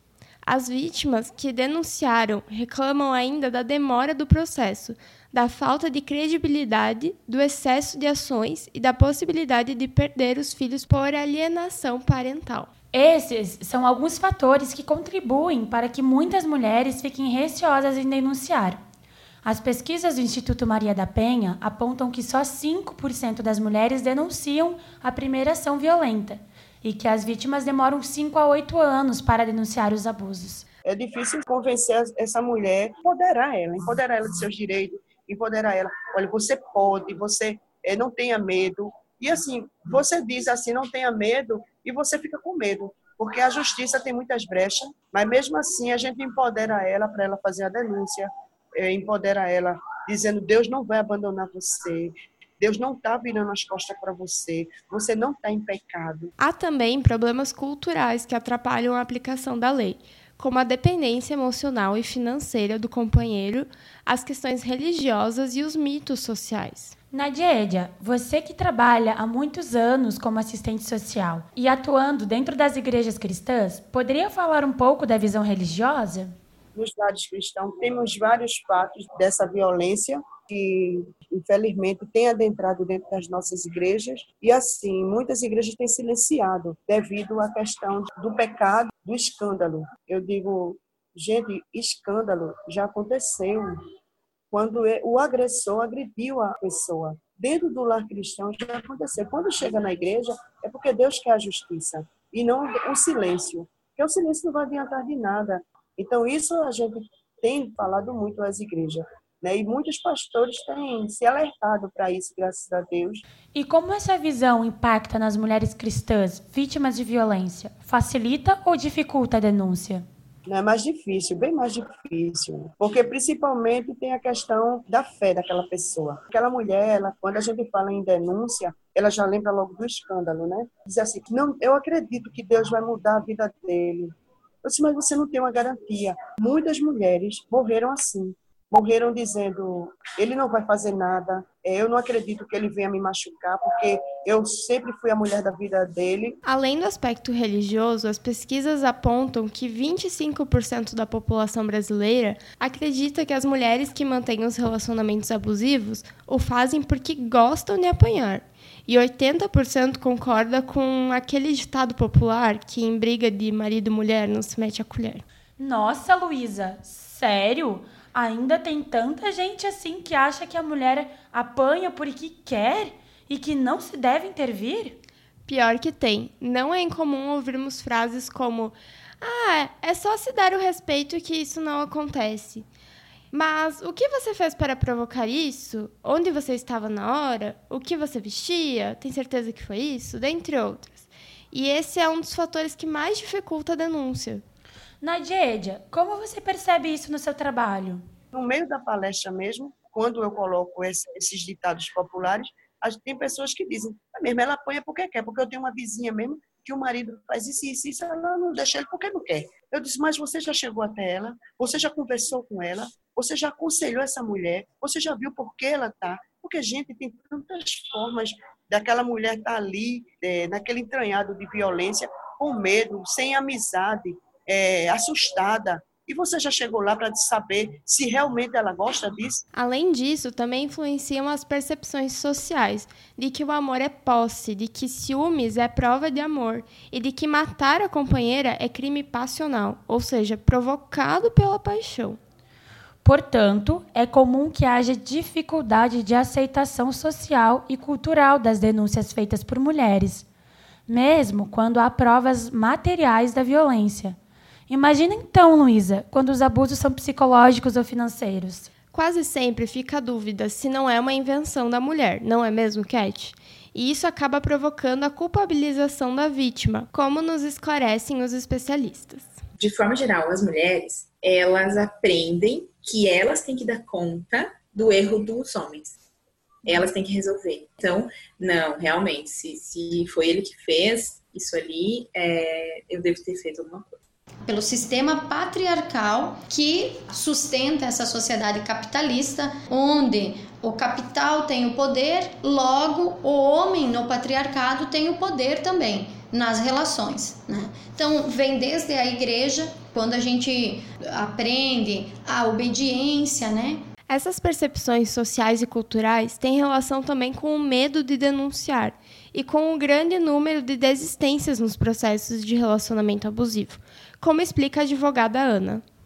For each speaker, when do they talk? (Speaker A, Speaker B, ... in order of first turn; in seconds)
Speaker A: 0.4-12.7, 56.4-66.9, 146.4-165.2, 175.5-182.7, 183.3-194.4, 229.5-242.2, 258.9-269.4, 304.1-315.8
Speaker B: 12.9-18.8, 19.4-30.6, 67.1-76.3, 113.5-120.0, 165.6-174.9, 195.0-198.0, 243.0-250.2, 250.9-254.2, 254.7-258.7
Speaker C: 30.8-56.3, 76.7-93.8, 94.5-113.2, 120.5-146.4, 198.3-229.4
Speaker D: 269.6-276.0, 276.6-283.9
Speaker E: 284.4-303.8